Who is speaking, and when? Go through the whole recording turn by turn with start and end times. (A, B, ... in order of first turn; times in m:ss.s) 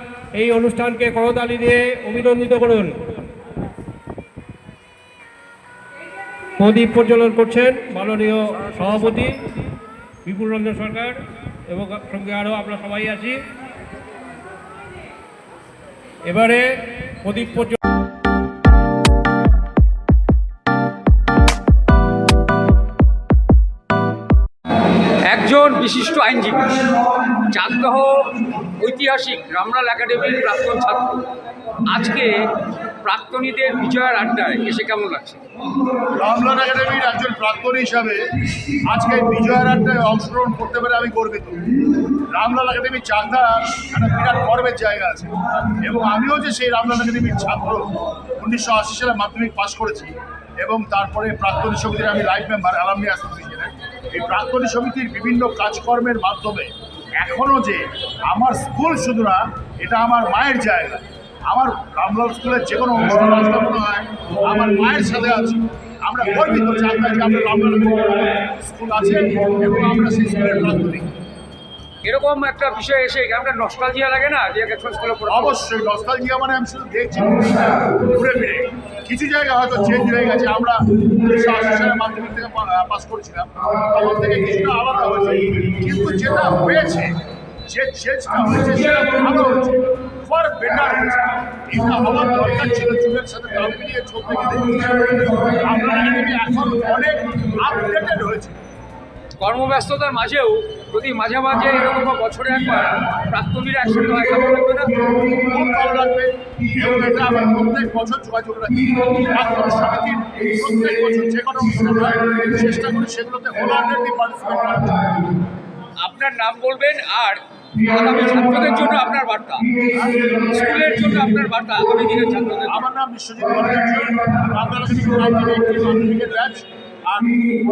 0:00.3-0:03.0 A
0:06.6-0:09.4 A
0:10.2-0:11.2 A
0:11.7-0:13.4 A
0:16.3-0:17.8 A
0:25.2-0:28.2 B
0:28.8-0:31.2 B
0:31.9-0:32.5 B
0:33.0-0:35.4 B
0:36.1-0:38.3 C
0:38.9-0:41.6 C
0:42.3-1:11.1 C
1:12.0-1:15.6 B
1:15.3-1:27.2 C
1:27.7-1:38.6 C
1:39.4-1:45.0 B
1:45.3-1:55.1 C
1:56.0-1:59.7 B
1:59.9-2:00.8 C
2:00.4-2:02.8 B
2:02.7-2:07.4 C